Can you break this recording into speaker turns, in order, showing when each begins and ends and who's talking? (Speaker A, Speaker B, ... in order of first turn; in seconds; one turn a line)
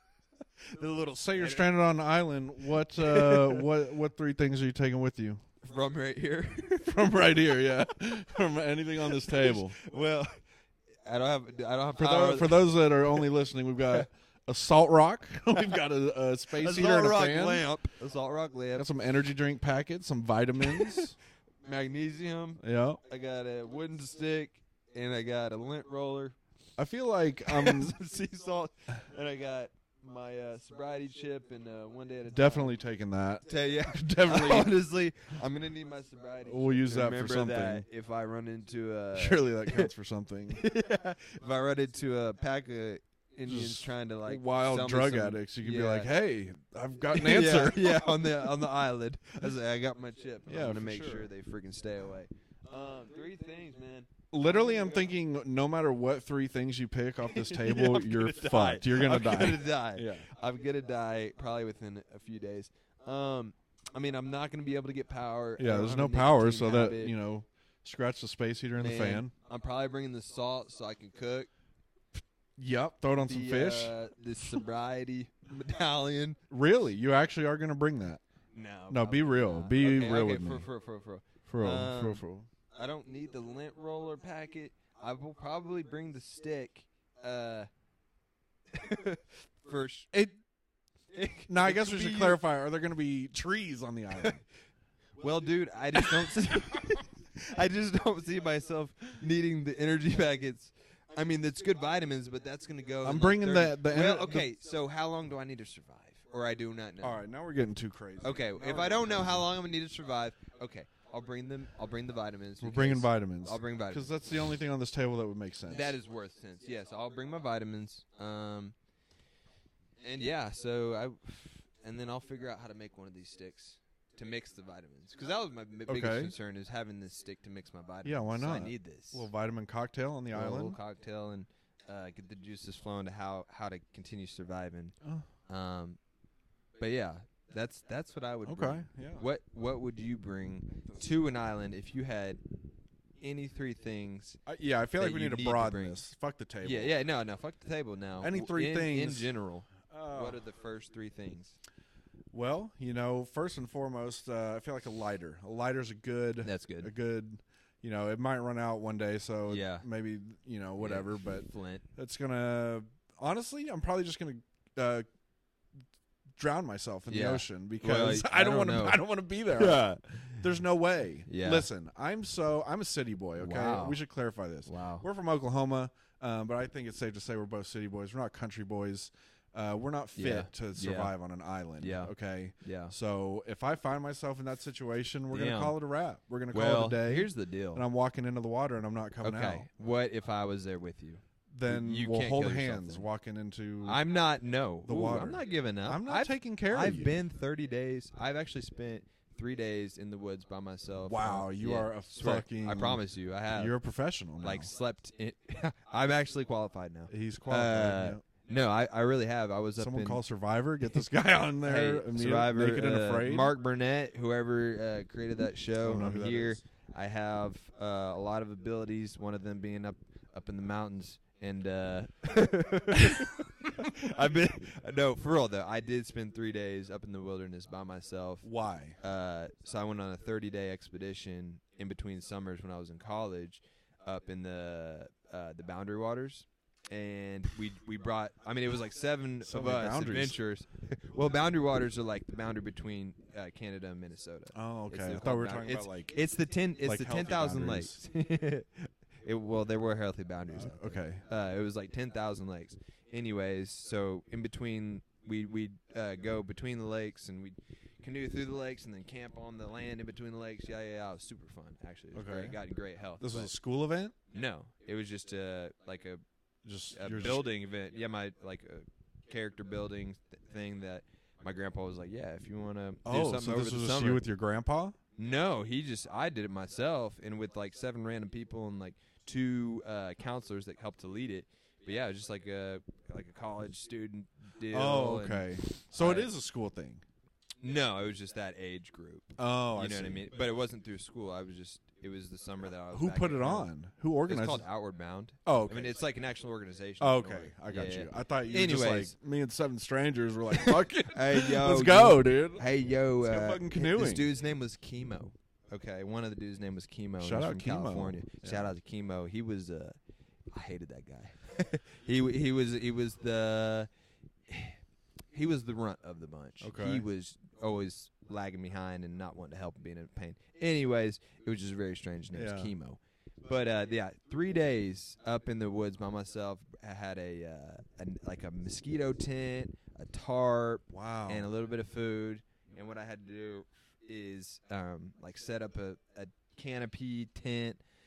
Speaker A: 0.6-1.7
Speaker B: 1.1-5.4
Speaker A: 2.9-3.6
Speaker A: 5.6-7.9
Speaker B: 6.8-9.7
Speaker A: 9.0-10.3
Speaker A: 11.1-13.2
Speaker B: 12.0-17.6
Speaker A: 16.5-18.9
Speaker B: 18.7-21.1
Speaker A: 20.6-21.1
Speaker A: 21.6-26.4
Speaker B: 22.6-23.0
Speaker B: 26.8-27.9
Speaker A: 27.5-32.7
Speaker B: 32.3-34.7
Speaker A: 33.5-39.9
Speaker B: 36.5-37.9
Speaker B: 39.1-40.6
Speaker A: 40.5-46.1
Speaker B: 43.5-48.5
Speaker A: 47.1-55.0
Speaker B: 50.5-51.3
Speaker B: 54.3-60.3
Speaker A: 57.3-67.1
Speaker B: 65.6-69.3
Speaker A: 68.8-71.5
Speaker B: 72.6-74.6
Speaker A: 73.2-76.4
Speaker B: 76.5-78.2
Speaker A: 78.5-87.7
Speaker B: 78.9-80.7
Speaker B: 81.5-82.5
Speaker A: 88.7-90.1
Speaker B: 90.1-90.4
Speaker A: 91.1-92.4
Speaker B: 91.5-94.4
Speaker A: 95.2-107.2
Speaker B: 95.9-96.3
Speaker B: 103.0-104.5
Speaker B: 107.0-109.5
Speaker A: 108.2-114.1
Speaker B: 112.6-115.9
Speaker A: 115.7-118.7
Speaker A: 120.0-129.2
Speaker B: 125.9-126.3
Speaker B: 128.0-130.8
Speaker A: 130.3-134.9
Speaker A: 135.5-136.0
Speaker A: 136.8-142.4
Speaker B: 138.4-139.2
Speaker A: 143.2-144.4
Speaker B: 144.4-146.9
Speaker A: 145.0-146.0
Speaker A: 146.6-151.6
Speaker B: 148.2-150.4
Speaker B: 152.3-165.1
Speaker A: 156.4-156.9
Speaker A: 159.5-159.8
Speaker A: 160.8-161.8
Speaker B: 166.3-169.9
Speaker A: 167.1-169.0
Speaker A: 169.5-170.4
Speaker B: 170.4-189.7
Speaker A: 171.3-171.7
Speaker A: 173.4-174.0
Speaker A: 174.7-175.0
Speaker A: 180.2-181.1
Speaker A: 181.8-182.9
Speaker A: 185.3-185.8
Speaker A: 186.5-187.8
Speaker A: 189.2-193.1
Speaker B: 191.5-194.0
Speaker A: 193.8-203.7
Speaker B: 194.8-197.2
Speaker B: 201.0-204.7
Speaker A: 204.4-210.2
Speaker B: 207.1-208.2
Speaker B: 209.8-213.5
Speaker A: 211.6-228.5
Speaker B: 215.8-216.6
Speaker B: 228.4-229.0
Speaker A: 229.0-263.5
Speaker B: 239.4-240.4
Speaker B: 244.5-246.1
Speaker B: 246.8-248.0
Speaker B: 250.5-251.2
Speaker B: 262.1-262.6
Speaker B: 263.2-264.1
Speaker A: 264.3-266.2
Speaker B: 266.6-267.4
Speaker A: 266.9-274.2
Speaker B: 273.0-274.9
Speaker A: 275.2-286.3
Speaker B: 284.7-287.0
Speaker A: 287.6-293.7
Speaker B: 289.4-290.2
Speaker B: 292.9-294.6
Speaker A: 294.3-299.1
Speaker B: 295.4-295.9
Speaker B: 297.0-302.6
Speaker A: 300.5-310.0
Speaker B: 303.2-304.3
Speaker B: 307.2-308.7
Speaker A: 310.5-313.9
Speaker A: 314.5-314.8
Speaker A: 315.3-337.8
Speaker B: 316.6-317.0
Speaker B: 322.3-322.7
Speaker B: 330.9-331.5